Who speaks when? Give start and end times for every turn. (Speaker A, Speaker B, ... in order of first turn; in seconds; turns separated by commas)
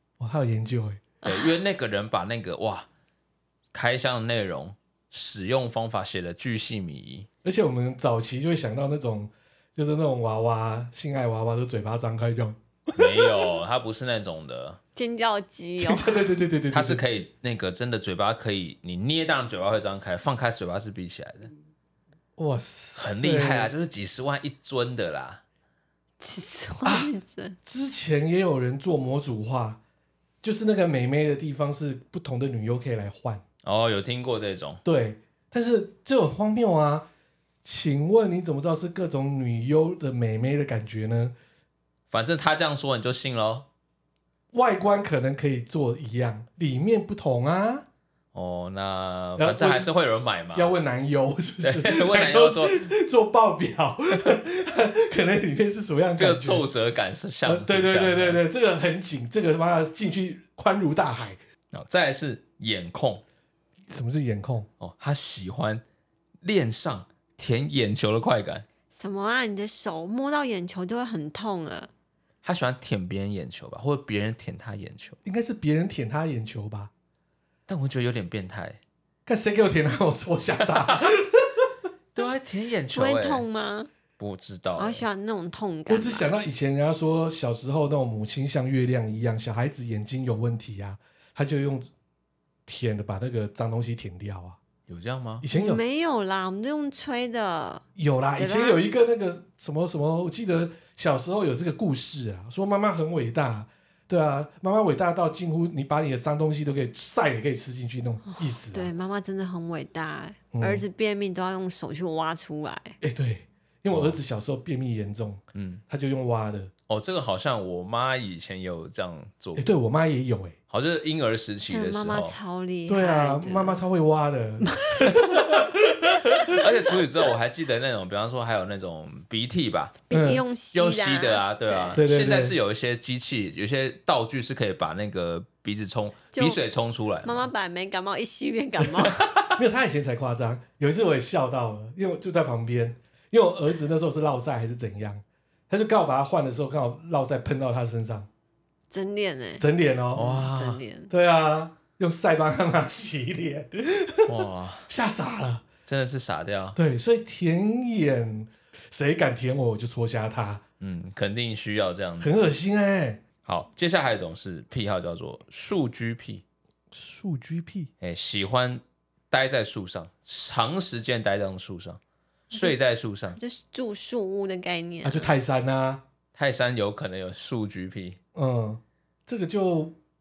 Speaker A: 0.2-1.0, Speaker B: 1.2-2.9, Speaker C: 1.2-1.5, Speaker B: 3.7-7.3, Speaker A: 7.4-13.3, Speaker B: 12.9-14.8, Speaker C: 14.9-16.3, Speaker A: 15.8-17.0, Speaker B: 16.7-21.5, Speaker A: 22.4-23.7, Speaker B: 23.0-25.4, Speaker C: 26.2-27.6, Speaker A: 26.9-27.1, Speaker A: 27.6-29.8, Speaker A: 30.4-33.4, Speaker B: 33.6-34.8, Speaker A: 34.8-37.1, Speaker A: 37.6-41.3, Speaker B: 42.1-43.6, Speaker A: 44.5-47.9, Speaker B: 48.3-50.7, Speaker A: 49.4-49.9, Speaker A: 50.5-56.6, Speaker B: 51.6-52.9, Speaker B: 56.2-58.4, Speaker A: 57.4-61.4, Speaker B: 61.7-63.2, Speaker A: 63.9-64.7, Speaker B: 64.8-65.8, Speaker B: 66.4-68.7, Speaker C: 68.9-71.9, Speaker B: 72.4-75.2, Speaker A: 75.2-76.9, Speaker B: 77.7-78.8, Speaker A: 79.2-81.7, Speaker B: 80.7-81.1, Speaker B: 82.1-83.4, Speaker C: 82.9-83.9, Speaker B: 84.2-85.0, Speaker C: 84.8-86.3, Speaker A: 85.9-91.9, Speaker A: 92.7-94.6, Speaker B: 94.9-95.4, Speaker A: 95.4-95.8, Speaker C: 95.5-97.8, Speaker A: 98.0-108.9, Speaker C: 98.4-98.8, Speaker C: 108.2-113.0, Speaker A: 110.5-110.9, Speaker A: 113.0-116.7, Speaker B: 113.9-114.2, Speaker B: 115.5-115.8, Speaker B: 116.9-119.7, Speaker A: 119.5-120.5, Speaker B: 120.7-122.4, Speaker C: 121.7-123.8, Speaker A: 122.9-126.6, Speaker C: 124.6-125.5, Speaker B: 126.5-130.0, Speaker C: 130.1-132.0, Speaker A: 130.1-130.4, Speaker B: 130.7-137.5, Speaker A: 131.9-132.6, Speaker C: 136.3-136.6, Speaker C: 137.2-139.3, Speaker A: 139.4-148.3, Speaker C: 148.9-151.1, Speaker A: 149.6-150.3, Speaker B: 150.1-150.8, Speaker A: 151.1-155.7, Speaker B: 154.3-154.9, Speaker B: 155.9-156.8, Speaker A: 156.8-160.6, Speaker B: 160.8-162.5, Speaker A: 162.2-163.2, Speaker B: 163.4-166.4, Speaker A: 166.9-167.9, Speaker B: 168.0-172.0, Speaker B: 172.5-173.4, Speaker C: 173.3-175.3, Speaker A: 175.0-176.0, Speaker B: 176.3-178.2, Speaker A: 178.3-179.9